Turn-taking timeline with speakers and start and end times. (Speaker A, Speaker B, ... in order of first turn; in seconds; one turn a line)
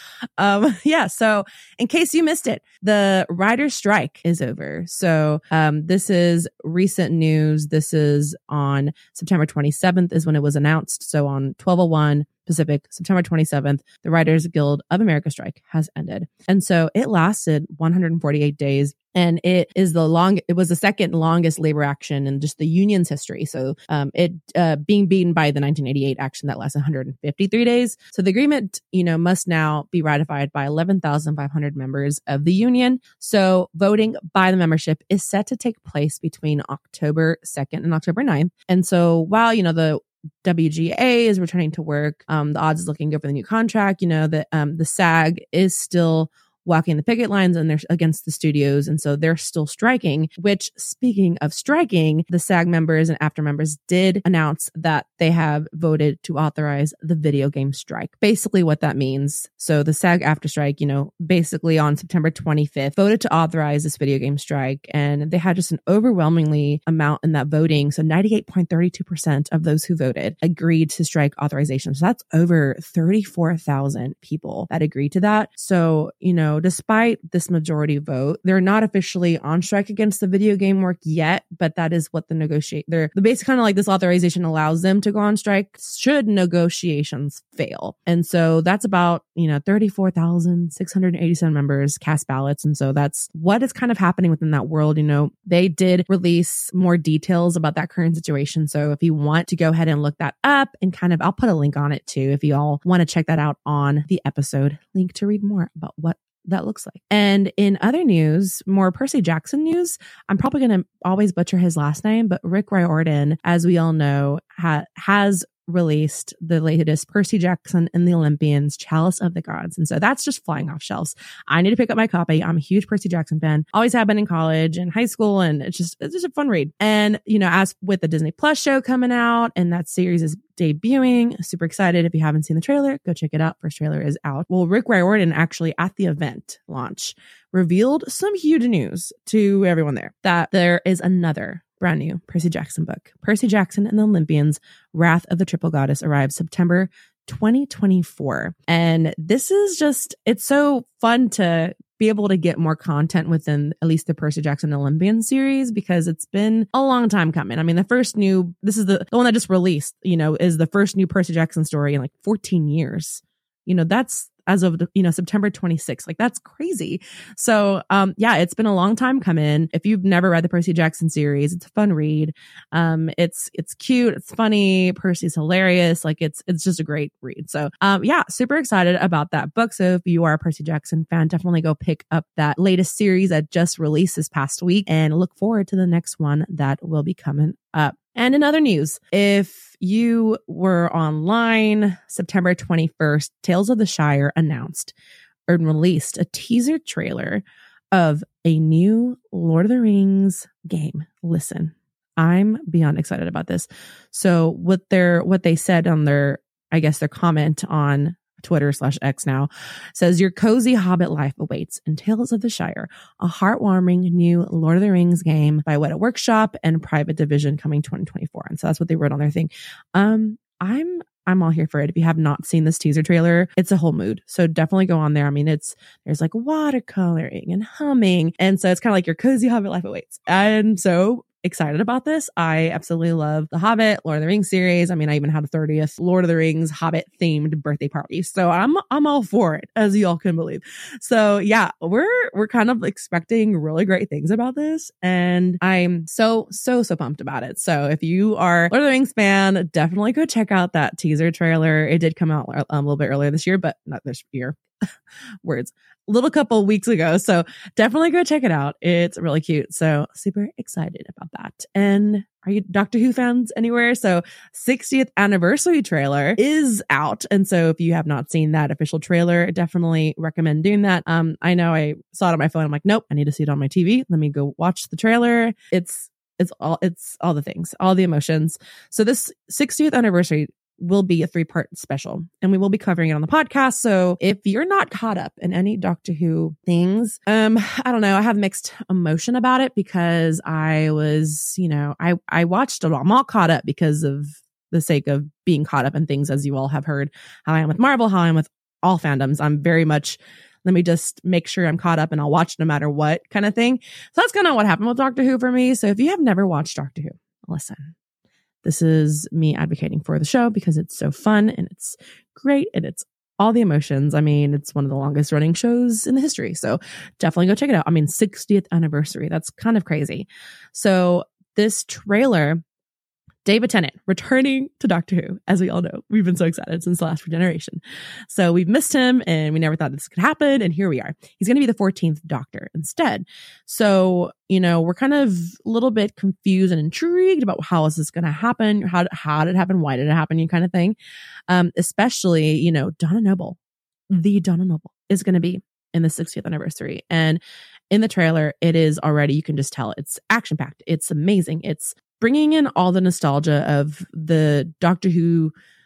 Speaker A: 0.4-194.9
Speaker A: 195.5-254.6
Speaker A: 255.4-307.9
Speaker A: 308.6-322.6
Speaker A: 323.4-341.0
Speaker A: 341.5-343.6
Speaker A: 344.1-355.5